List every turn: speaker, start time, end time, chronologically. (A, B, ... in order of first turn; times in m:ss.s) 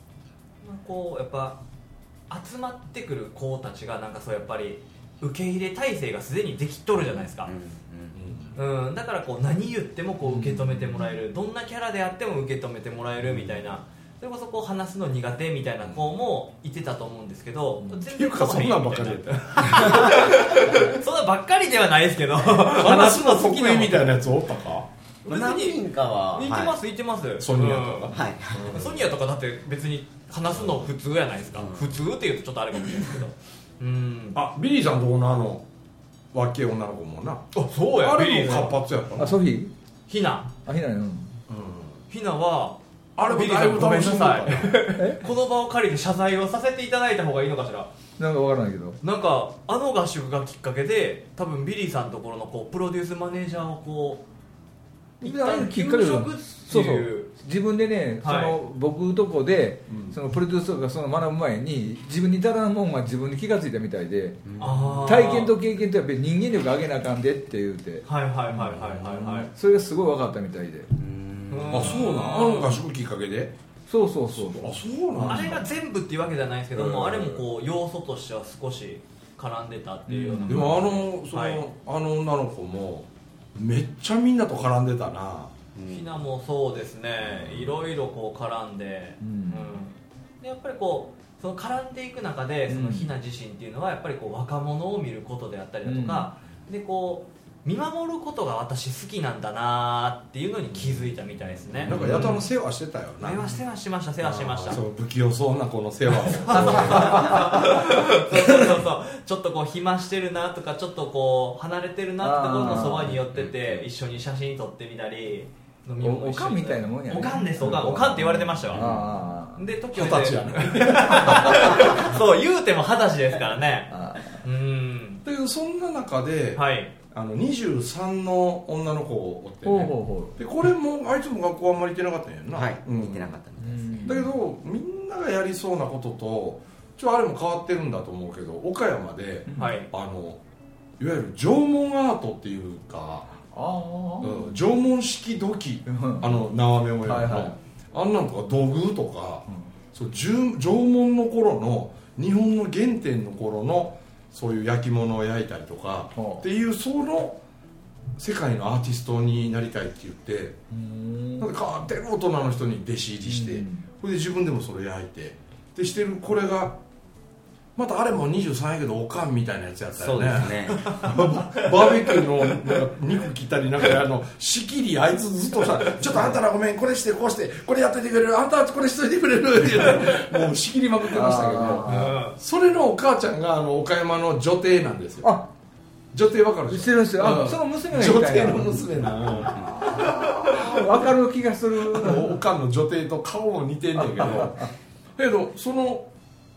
0:00.6-0:01.6 A
0:02.3-0:07.5 A
0:07.3-0:08.2 B
0:08.2-0:08.6 C
0:08.6-0:24.2 A
0:10.2-0:11.1 D
0:13.2-0:13.6 B
0:18.0-0:20.4 C
0:22.6-0:24.9 C
0:25.2-0:26.8 B
0:25.2-0:34.4 A
0:27.4-0:29.1 C
0:28.1-0:28.8 B
0:30.5-0:30.8 C
0:31.6-0:32.0 B
0:34.3-0:35.6 C
0:36.3-0:37.5 C
0:37.5-0:38.8 A
0:38.0-0:39.4 C
0:39.2-0:39.7 D
0:40.1-0:40.5 A
0:40.6-0:41.4 D
0:41.5-0:42.0 C
0:42.1-0:47.9 A
0:43.2-0:44.8 C
0:45.0-0:45.2 D
0:48.2-0:49.0 D
0:49.0-0:54.2 A
0:55.2-1:04.4 D
0:55.2-0:57.3 A
0:58.2-0:58.6 A
0:59.9-1:00.2 C
1:04.4-1:05.5 B
1:04.6-1:05.5 A
1:05.0-1:08.1 D
1:08.1-1:09.5 A
1:08.7-1:09.3 B
1:09.5-1:10.9 D
1:11.0-1:12.1 B
1:11.5-1:12.8 A
1:11.7-1:13.6 C
1:13.9-1:15.6 D
1:14.3-1:15.7 C
1:15.2-1:21.6 A
1:16.7-1:17.4 C
1:20.1-1:20.8 D
1:20.5-1:25.5 C
1:25.8-1:26.2 B
1:25.9-1:42.5 A
1:29.2-1:29.8 D
1:32.7-1:33.1 D
1:35.8-1:36.3 D
1:41.8-1:43.4 C
1:42.0-1:42.2 D
1:43.2-1:44.8 A
1:44.2-1:47.6 C
1:46.3-1:59.0 A
1:46.6-1:47.6 D
1:52.2-1:53.2 D
1:53.3-1:53.8 B
1:56.0-1:59.7 D
1:57.7-1:57.9 C
1:58.7-1:59.1 C
1:59.6-2:05.2 A
1:59.9-2:02.1 C
2:03.9-2:04.4 D
2:05.2-2:13.4 C
2:06.6-2:06.9 A
2:09.6-2:10.4 D
2:12.5-2:14.3 B
2:13.6-2:14.3 D
2:14.0-2:20.4 C
2:19.5-2:19.8 D
2:19.6-2:19.9 A
2:21.0-2:23.4 C
2:23.5-2:24.5 D
2:24.2-2:37.4 C
2:25.9-2:26.4 D
2:27.0-2:27.6 D
2:36.2-2:36.4 D
2:38.2-2:40.6 C
2:40.7-2:41.5 D
2:41.4-2:46.8 C
2:43.3-2:43.8 D
2:47.8-3:05.4 C
2:50.0-2:51.1 B
2:51.6-2:52.2 A
3:01.1-3:02.2 D
3:01.8-3:02.4 A
3:06.1-3:11.0 C
3:06.7-3:09.0 D
3:09.6-3:12.4 D
3:11.9-3:16.1 C
3:14.1-3:14.7 D